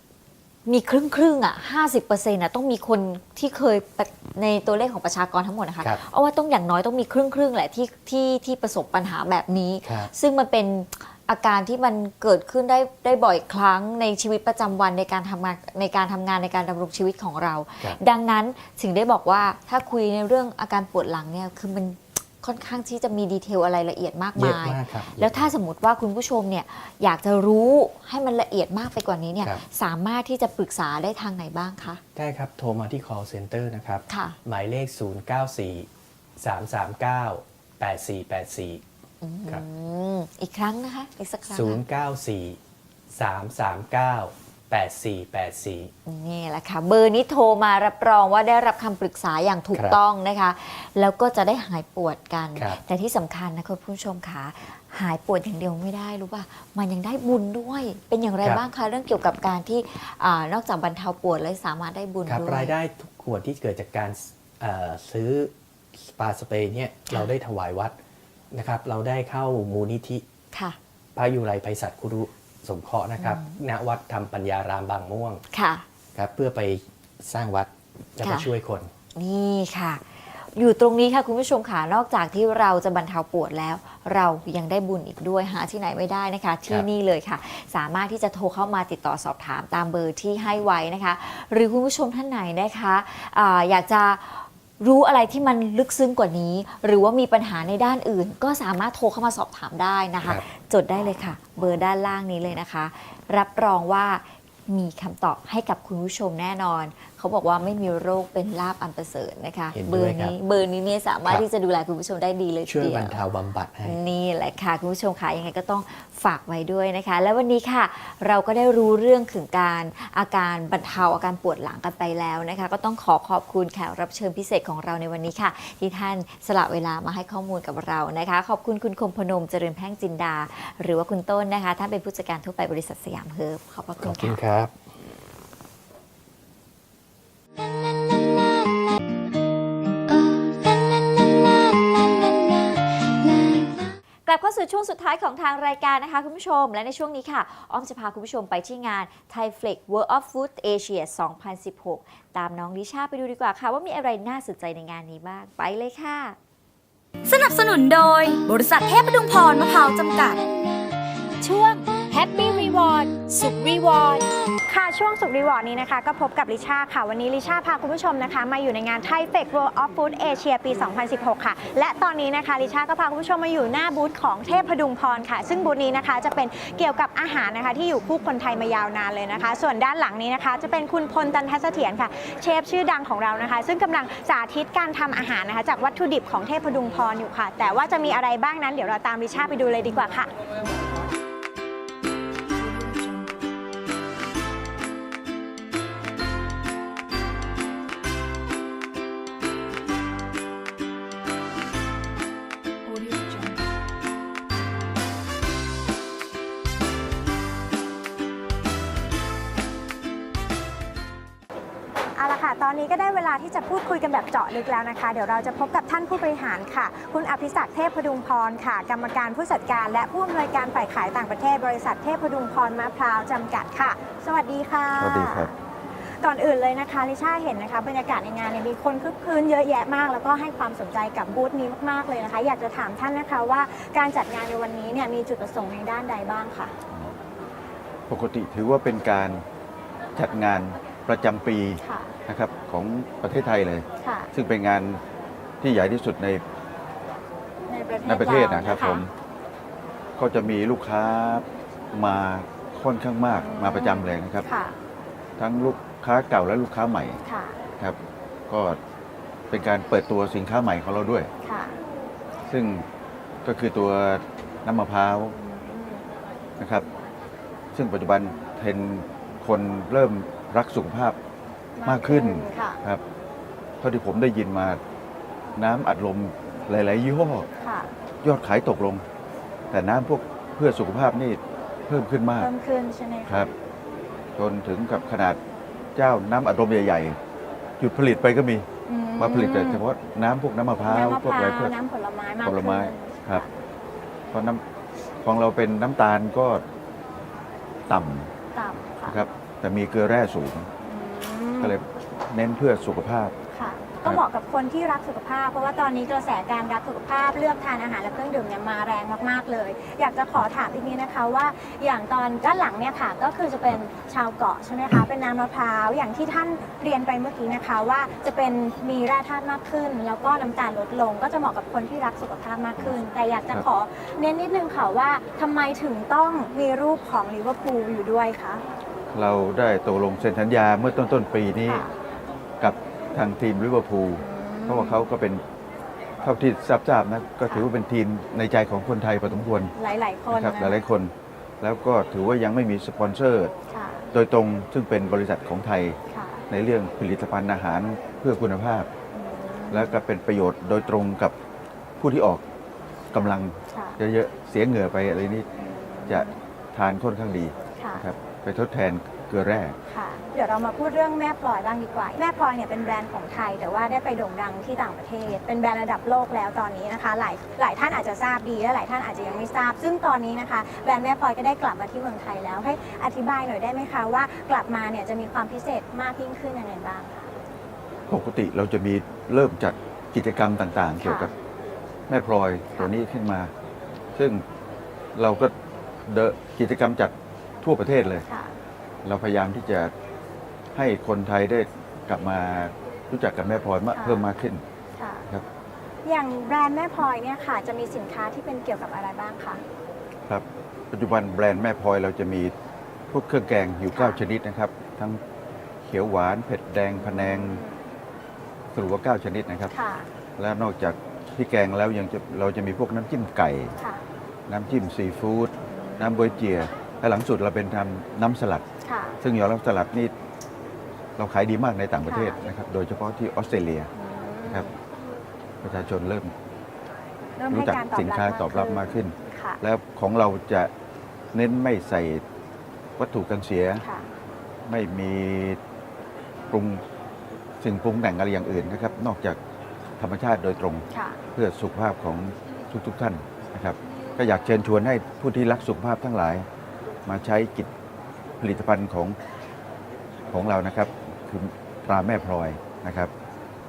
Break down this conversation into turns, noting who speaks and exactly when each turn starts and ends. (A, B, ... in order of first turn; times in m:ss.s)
0:00.7-0:32.0 A
0:09.8-0:10.1 B
0:24.4-0:25.5 B
0:32.2-0:38.8 B
0:34.1-0:34.4 A
0:39.2-0:41.8 A
0:41.5-0:42.6 B
0:43.1-0:45.9 B
0:46.0-1:02.7 A
0:49.7-0:50.0 B
0:52.6-0:52.8 B
1:02.2-1:08.0 B
1:08.5-1:10.2 B
1:11.2-1:15.4 B
1:13.2-1:13.6 A
1:15.5-1:15.8 A
1:16.1-1:18.9 B
1:18.2-1:18.5 A
1:19.1-1:53.2 A
1:49.7-1:50.4 B
1:52.7-1:54.0 B
1:53.8-2:14.4 A
2:14.0-2:14.7 B
2:24.2-2:36.4 A
2:37.2-2:40.4 C
2:41.4-2:44.2 A
2:42.1-2:43.1 D
2:44.7-3:10.3 D
3:32.2-3:45.5 D
3:45.0-3:45.5 E
3:46.2-3:56.8 D
3:58.1-3:59.4 E
4:00.2-4:05.0 E
4:01.8-4:02.1 D
4:04.0-4:04.3 D
4:05.6-4:06.4 E
4:07.7-4:09.0 D
4:08.1-4:09.1 E
4:10.2-4:14.4 E
4:13.4-4:14.7 D
4:15.4-4:17.2 E
4:17.2-4:17.6 D
4:18.5-4:18.8 E
4:19.5-4:21.3 E
4:21.4-4:21.8 D
4:22.5-4:22.8 E
4:23.4-4:25.4 E
4:25.4-4:26.1 D
4:26.6-4:26.9 E
4:27.7-4:31.2 E
4:31.8-4:32.8 D
4:31.8-4:33.0 E
4:33.8-4:34.8 E
4:35.6-4:37.5 E
4:37.6-4:37.9 D
4:38.2-4:39.0 E
4:39.7-4:42.5 E
4:42.4-4:43.5 D
4:43.2-4:43.5 E
4:44.4-4:45.4 E
4:46.0-4:47.2 E
4:47.8-4:51.8 E
4:48.8-4:49.8 D
4:50.8-4:53.5 D
4:52.4-4:53.4 E
4:54.3-4:54.6 E
4:55.2-4:56.6 E
4:57.9-4:58.3 E
4:58.5-4:59.2 D
4:59.0-5:00.7 E
5:00.8-5:01.7 D
5:01.6-5:03.4 E
5:03.5-5:28.6 D
5:29.1-5:31.8 E
5:31.6-5:31.9 D
5:32.6-5:35.4 E
5:34.2-5:35.0 D
5:36.2-5:39.7 E
5:39.8-5:40.8 D
5:40.3-5:43.5 E
5:43.7-5:44.1 D
5:44.1-5:46.0 E
5:46.1-5:46.4 D
5:46.5-5:48.9 E
5:49.1-5:50.0 D
5:49.7-5:51.3 E
5:52.0-5:52.4 E
5:53.1-5:54.0 D
5:53.1-5:55.5 E
5:55.6-5:56.4 D
5:56.1-5:59.8 E
5:57.8-5:58.0 D
5:59.9-6:17.3 D
6:18.1-6:21.3 E
6:21.0-6:21.3 D
6:22.1-6:23.5 E
6:24.1-6:24.4 E
6:25.1-6:25.5 E
6:26.0-6:28.2 E
6:28.3-6:28.5 D
6:29.0-6:29.9 E
6:30.7-6:34.6 E
6:33.9-6:34.3 D
6:35.0-6:35.2 D
6:36.0-6:39.6 D
6:40.3-6:42.5 E
6:43.1-6:45.2 E
6:43.9-6:44.2 D
6:45.8-6:47.6 E
6:47.0-6:47.8 D
6:48.7-6:49.8 E
6:49.7-6:50.1 D
6:50.4-6:53.7 E
6:54.5-6:58.6 E
6:55.7-6:56.3 D
6:58.8-6:59.1 D
6:59.2-7:00.1 E
7:01.2-7:03.9 E
7:02.1-7:02.4 D
7:04.0-7:04.8 D
7:05.6-7:06.3 E
7:07.4-7:09.6 D
7:07.5-7:10.7 E
7:11.3-7:12.2 E
7:13.0-7:13.8 E
7:13.8-7:14.1 D
7:14.6-7:15.6 E
7:16.5-7:16.8 E
7:17.6-7:19.4 E
7:20.0-7:26.5 E
7:20.9-7:21.2 D
7:27.0-7:27.7 E
7:28.4-7:29.2 E
7:30.3-7:33.1 E